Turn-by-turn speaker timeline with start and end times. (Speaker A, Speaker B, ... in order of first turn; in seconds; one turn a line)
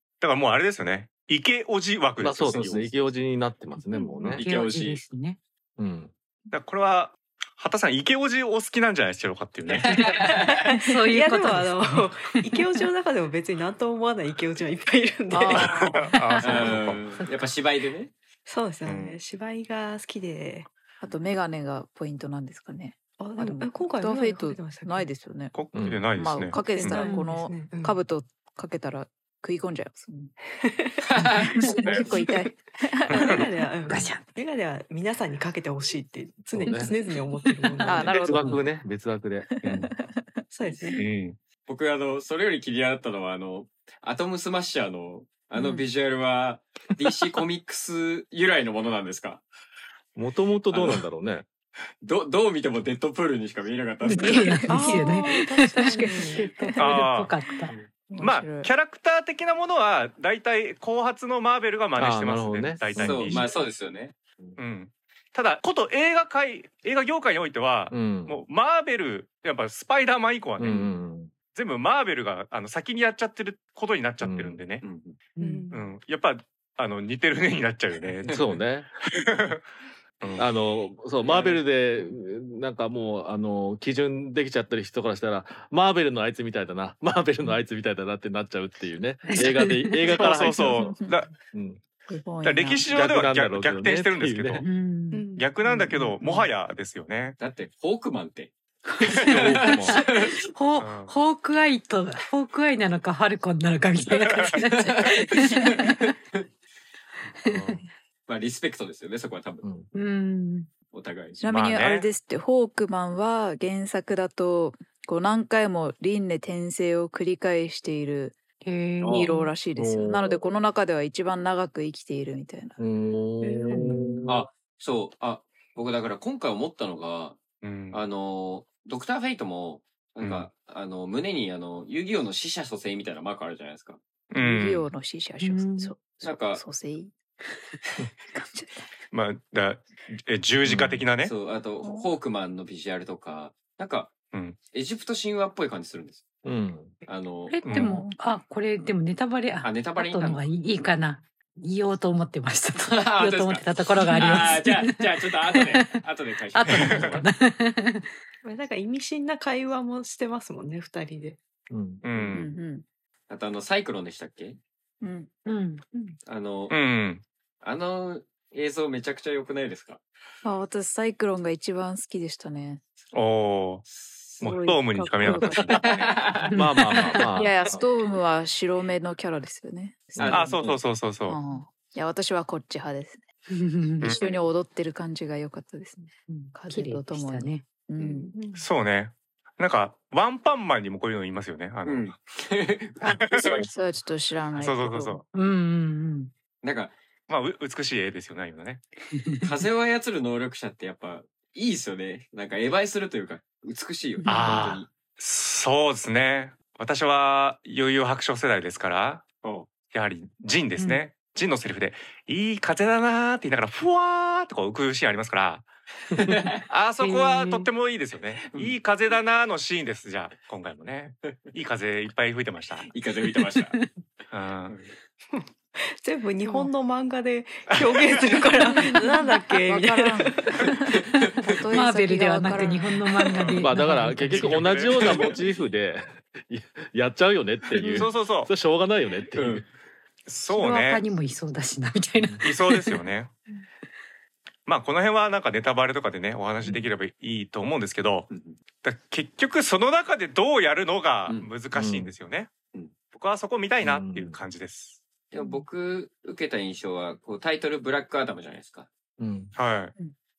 Speaker A: 0.2-3.0
Speaker B: 2.2-4.5
Speaker C: 3.8-5.4
Speaker D: 4.4-5.1
Speaker B: 5.8-6.1
Speaker A: 6.5-10.0
Speaker D: 9.7-10.6
Speaker C: 9.9-12.6
Speaker E: 10.5-16.8
Speaker A: 15.3-17.1
Speaker C: 16.4-17.6
Speaker D: 16.4-18.1
Speaker E: 18.5-20.7
Speaker A: 18.9-19.2
Speaker F: 21.0-25.6
Speaker E: 23.2-25.1
Speaker A: 25.5-26.9
Speaker B: 25.7-26.1
Speaker F: 26.2-30.3
Speaker E: 26.7-28.0
Speaker C: 26.9-27.3
Speaker E: 30.6-31.0
Speaker D: 31.1-32.1
Speaker F: 31.8-33.5
Speaker A: 33.1-33.5
Speaker E: 33.1-38.6
Speaker C: 33.9-34.3
Speaker B: 36.5-36.9
Speaker C: 37.6-38.1
Speaker F: 37.9-38.6
Speaker B: 38.2-39.8
Speaker F: 39.5-40.4
Speaker A: 39.6-39.9
Speaker E: 40.5-41.0
Speaker A: 41.0-41.4
Speaker D: 41.7-49.4
Speaker B: 50.2-51.5
Speaker D: 50.7-51.0
Speaker D: 52.0-54.7
Speaker C: 54.0-57.8
Speaker F: 54.2-55.2
Speaker E: 54.7-56.4
Speaker F: 55.8-56.9
Speaker A: 56.8-57.3
Speaker F: 58.1-58.7
Speaker A: 58.1-63.5
Speaker B: 62.0-63.5
Speaker D: 62.9-64.6
Speaker A: 64.6-70.9
Speaker B: 67.9-68.4
Speaker B: 70.6-71.3
Speaker A: 71.5-74.8
Speaker B: 74.2-74.6
Speaker D: 74.8-75.2
Speaker E: 75.4-75.9
Speaker C: 75.4-75.7
Speaker A: 75.7-78.4
Speaker B: 78.3-78.9
Speaker A: 79.2-79.6
Speaker A: 80.2-80.5
Speaker B: 80.4-90.9
Speaker D: 81.3-81.6
Speaker C: 89.2-90.2
Speaker A: 90.1-91.3
Speaker F: 90.5-91.2
Speaker B: 91.5-91.8
Speaker F: 92.1-92.9
Speaker A: 92.4-94.6
Speaker B: 92.9-94.6
Speaker C: 94.6-95.3
Speaker E: 95.1-95.5
Speaker A: 95.3-97.4
Speaker C: 95.9-96.5
Speaker D: 97.4-100.3
Speaker C: 98.9-106.1
Speaker B: 99.3-100.0
Speaker A: 100.8-101.1
Speaker D: 104.7-106.4
Speaker C: 107.4-107.8
Speaker A: 107.5-107.8
Speaker D: 108.3-109.7
Speaker B: 109.6-109.9
Speaker C: 109.9-110.7
Speaker D: 110.9-111.4
Speaker F: 111.4-118.4
Speaker A: 111.5-112.1
Speaker C: 118.6-119.5
Speaker F: 119.0-122.8
Speaker B: 119.8-120.4
Speaker B: 122.8-124.5
Speaker E: 123.5-123.8
Speaker C: 123.7-124.2
Speaker D: 124.3-134.0
Speaker A: 127.6-128.0
Speaker A: 130.2-130.5
Speaker A: 134.3-134.9
Speaker F: 134.4-137.1
Speaker C: 135.4-135.9
Speaker D: 136.2-136.6
Speaker A: 139.1-141.3
Speaker B: 140.7-141.0
Speaker D: 141.2-144.2
Speaker A: 144.3-144.6
Speaker D: 144.7-146.3
Speaker B: 146.4-146.9
Speaker D: 147.1-147.6
Speaker C: 147.5-156.0
Speaker A: 147.7-148.0
Speaker F: 147.7-148.1
Speaker D: 149.6-150.4
Speaker D: 152.8-157.3
Speaker C: 156.5-158.1
Speaker A: 156.7-157.2
Speaker E: 158.4-161.4
Speaker B: 161.7-162.0
Speaker A: 162.0-162.5
Speaker F: 162.3-162.8
Speaker D: 163.3-164.6
Speaker F: 165.0-165.3
Speaker C: 165.5-165.8
Speaker D: 166.3-166.7
Speaker A: 166.7-167.2
Speaker D: 167.6-170.0
Speaker F: 170.4-172.8
Speaker A: 173.1-173.8
Speaker D: 173.9-174.4
Speaker A: 174.4-175.8
Speaker F: 174.4-175.8
Speaker D: 175.7-176.5
Speaker C: 176.5-177.4
Speaker B: 176.5-177.5
Speaker F: 177.4-180.6
Speaker D: 180.2-180.8
Speaker A: 180.3-181.4
Speaker F: 181.3-183.2
Speaker C: 183.5-184.3
Speaker F: 184.0-188.3
Speaker C: 186.3-187.7
Speaker E: 188.0-188.6
Speaker A: 188.6-192.1
Speaker D: 191.8-193.7
Speaker A: 193.0-193.7
Speaker F: 193.6-195.2
Speaker A: 194.6-195.2
Speaker C: 195.3-196.3
Speaker D: 196.6-196.9
Speaker A: 197.3-198.8
Speaker C: 199.2-199.5
Speaker D: 199.4-204.9
Speaker C: 204.2-204.6
Speaker A: 204.3-209.2
Speaker D: 209.4-209.7
Speaker A: 209.8-215.7
Speaker C: 210.8-211.1
Speaker D: 216.2-216.6
Speaker A: 216.7-222.9
Speaker C: 217.0-217.7
Speaker D: 218.4-218.8
Speaker D: 222.9-223.8
Speaker C: 223.5-223.9
Speaker A: 224.3-224.8
Speaker E: 225.3-230.6
Speaker A: 227.7-228.2
Speaker F: 228.7-233.0
Speaker D: 230.9-231.6
Speaker C: 231.7-234.7
Speaker E: 232.5-233.0
Speaker A: 233.4-233.7
Speaker B: 233.6-239.7
Speaker A: 234.3-235.4
Speaker D: 234.9-235.4
Speaker A: 237.9-238.5
Speaker D: 239.3-239.7
Speaker A: 240.3-241.0
Speaker C: 240.5-243.1
Speaker A: 242.4-243.3
Speaker A: 244.7-248.3
Speaker D: 248.3-248.6
Speaker A: 248.8-252.5
Speaker B: 251.7-252.1
Speaker A: 253.1-255.0
Speaker B: 253.8-254.4
Speaker D: 255.3-258.9
Speaker B: 259.2-259.5
Speaker A: 259.6-259.9